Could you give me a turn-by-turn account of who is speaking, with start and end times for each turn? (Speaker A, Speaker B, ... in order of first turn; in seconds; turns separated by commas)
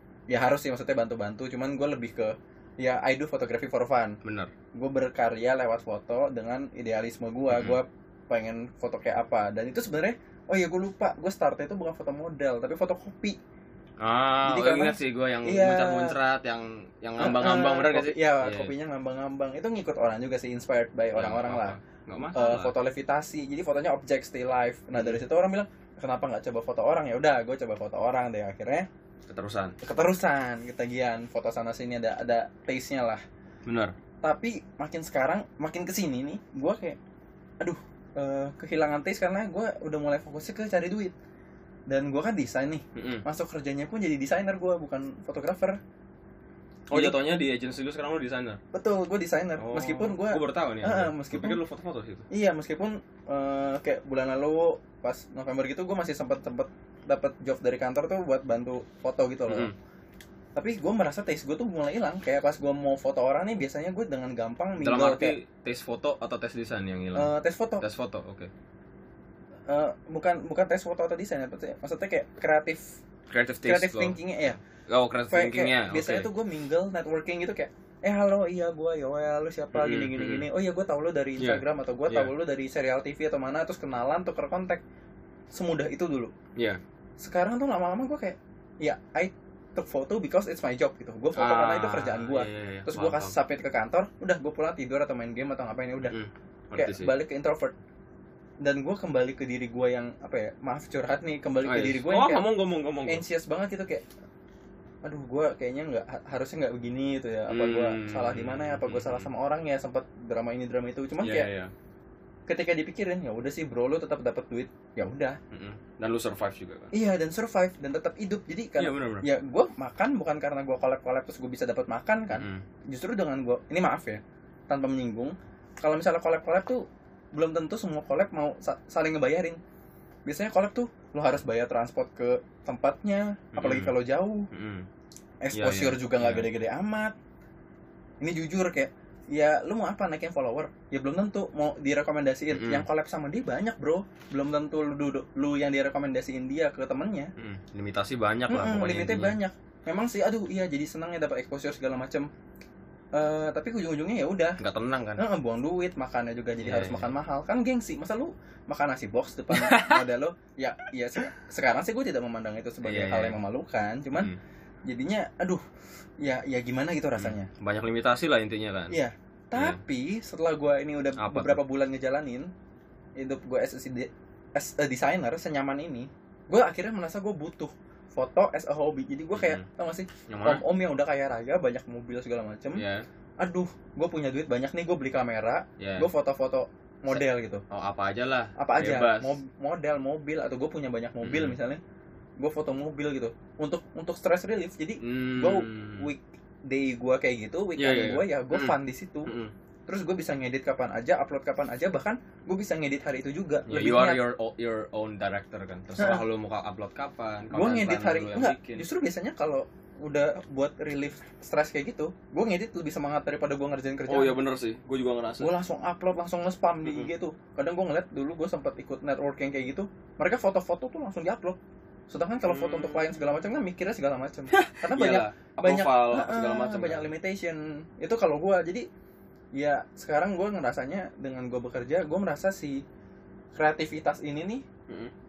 Speaker A: 0.3-4.2, Speaker B: 4.2-4.5, Speaker A: 4.7-13.4, Speaker B: 7.5-7.8, Speaker B: 14.0-18.7, Speaker A: 14.4-16.1, Speaker A: 17.2-21.8, Speaker B: 21.1-22.7, Speaker A: 22.3-28.9, Speaker B: 24.9-25.2, Speaker B: 29.3-29.7, Speaker A: 29.8-33.2, Speaker B: 33.6-33.9, Speaker A: 34.2-37.0, Speaker A: 37.6-41.1, Speaker A: 41.9-45.8, Speaker B: 42.9-43.2, Speaker B: 46.9-48.6, Speaker A: 46.9-47.2, Speaker A: 48.7-51.6, Speaker B: 49.5-52.2, Speaker A: 52.3-59.7, Speaker B: 59.5-59.7, Speaker A: 60.5-65.3, Speaker B: 64.8-68.5, Speaker A: 67.1-67.8, Speaker A: 69.7-73.0, Speaker B: 73.3-74.2, Speaker A: 73.6-74.6, Speaker B: 74.9-76.3, Speaker A: 75.3-84.8, Speaker B: 79.7-80.5, Speaker B: 81.4-82.3, Speaker A: 85.5-86.3, Speaker A: 87.2-96.1, Speaker B: 91.3-93.3, Speaker B: 96.1-97.1, Speaker A: 96.8-97.7, Speaker A: 98.6-102.4, Speaker B: 101.6-103.2, Speaker A: 103.1-104.0, Speaker A: 105.0-111.5, Speaker B: 107.5-109.3, Speaker B: 111.2-111.7, Speaker A: 112.5-115.4, Speaker B: 115.5-116.9, Speaker A: 116.9-129.6, Speaker B: 118.8-119.3, Speaker B: 122.3-122.6, Speaker A: 130.2-134.5, Speaker B: 133.5-133.9, Speaker B: 134.5-134.9, Speaker A: 135.4-137.1, Speaker B: 135.5-136.5, Speaker A: 138.2-147.3, Speaker B: 142.5-142.8, Speaker B: 147.4-149.4, Speaker A: 148.5-152.3, Speaker A: 153.1-154.6, Speaker B: 154.6-155.2, Speaker A: 155.2-164.3, Speaker B: 156.6-157.1, Speaker B: 159.5-160.0, Speaker B: 162.8-163.4, Speaker A: 164.8-165.7, Speaker A: 166.2-167.5, Speaker B: 167.2-169.0, Speaker A: 168.9-172.5, Speaker B: 171.2-171.6, Speaker A: 173.2-182.8, Speaker B: 179.3-179.7, Speaker B: 180.3-180.6, Speaker B: 182.7-183.1, Speaker A: 183.4-187.6, Speaker B: 185.8-186.1, Speaker B: 187.1-189.4, Speaker A: 188.6-191.8, Speaker B: 191.2-191.6, Speaker A: 192.4-199.3, Speaker B: 195.0-196.1, Speaker B: 197.8-199.5, Speaker A: 199.9-204.2, Speaker B: 203.7-208.8, Speaker A: 206.0-206.2, Speaker A: 207.5-214.4, Speaker B: 214.1-215.5, Speaker A: 215.4-221.6, Speaker A: 222.1-228.9, Speaker B: 222.5-223.3, Speaker B: 224.5-227.1, Speaker A: 229.5-232.8, Speaker A: 233.5-234.7